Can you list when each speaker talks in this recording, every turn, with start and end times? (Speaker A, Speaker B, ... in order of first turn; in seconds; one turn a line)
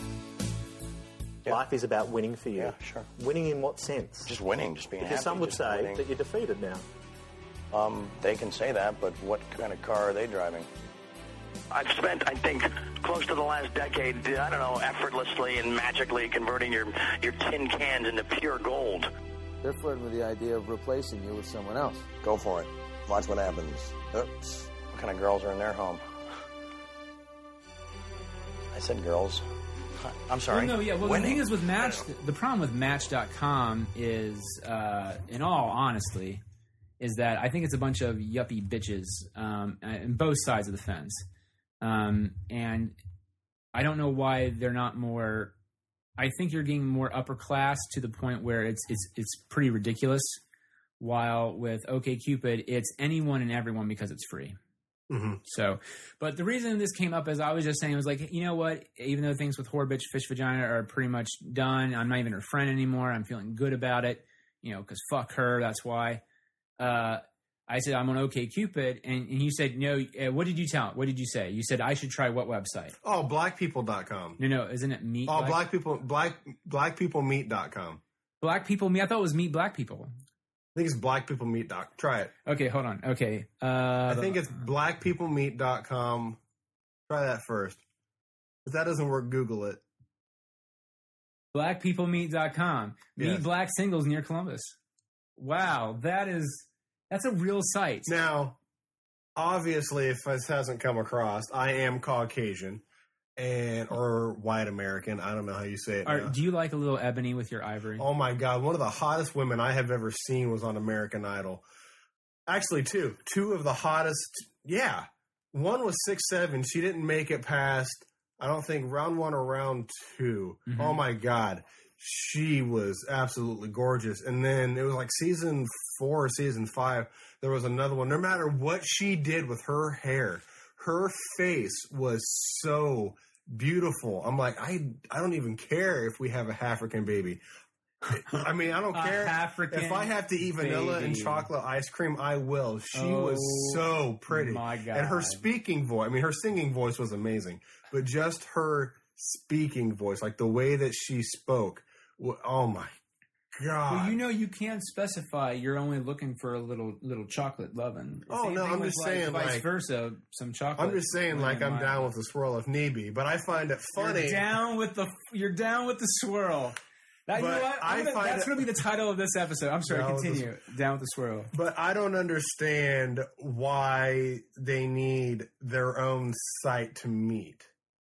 Speaker A: 1.4-4.3
Speaker B: 2.5-3.1
Speaker B: 4.2-6.0
Speaker A: 5.0-6.8
Speaker B: 7.7-10.7
Speaker B: 16.0-16.4
Speaker C: 19.6-22.1
Speaker B: 22.2-26.0
Speaker B: 28.7-29.4
Speaker B: 30.0-32.0
Speaker D: 30.5-36.4
Speaker D: 37.0-41.2
Speaker D: 41.8-43.0
Speaker D: 43.7-45.5
Speaker D: 46.2-50.4
Speaker D: 51.0-54.6
Speaker E: 55.1-55.4
Speaker D: 55.4-66.2
Speaker D: 66.8-73.0
Speaker E: 73.0-74.4
Speaker D: 74.4-75.6
Speaker E: 75.3-78.0
Speaker D: 78.4-80.1
Speaker E: 80.7-82.3
Speaker D: 82.5-84.5
Speaker E: 84.1-86.4
Speaker E: 87.1-87.8
Speaker E: 88.6-89.8
Speaker D: 91.5-94.8
Speaker E: 93.2-93.4
Speaker D: 95.4-98.1
Speaker E: 98.0-98.6
Speaker E: 99.4-102.8
Speaker E: 103.4-106.3
Speaker D: 106.0-108.0
Speaker E: 108.0-111.6
Speaker E: 112.5-137.4
Speaker D: 120.7-121.0
Speaker E: 138.1-152.9
Speaker D: 138.9-141.5
Speaker D: 142.9-145.4
Speaker E: 153.6-154.2
Speaker D: 153.9-162.1
Speaker E: 158.3-159.7
Speaker E: 160.8-164.5
Speaker D: 163.9-166.8
Speaker D: 167.3-171.5
Speaker E: 167.3-168.7
Speaker E: 169.8-170.5
Speaker E: 171.5-177.7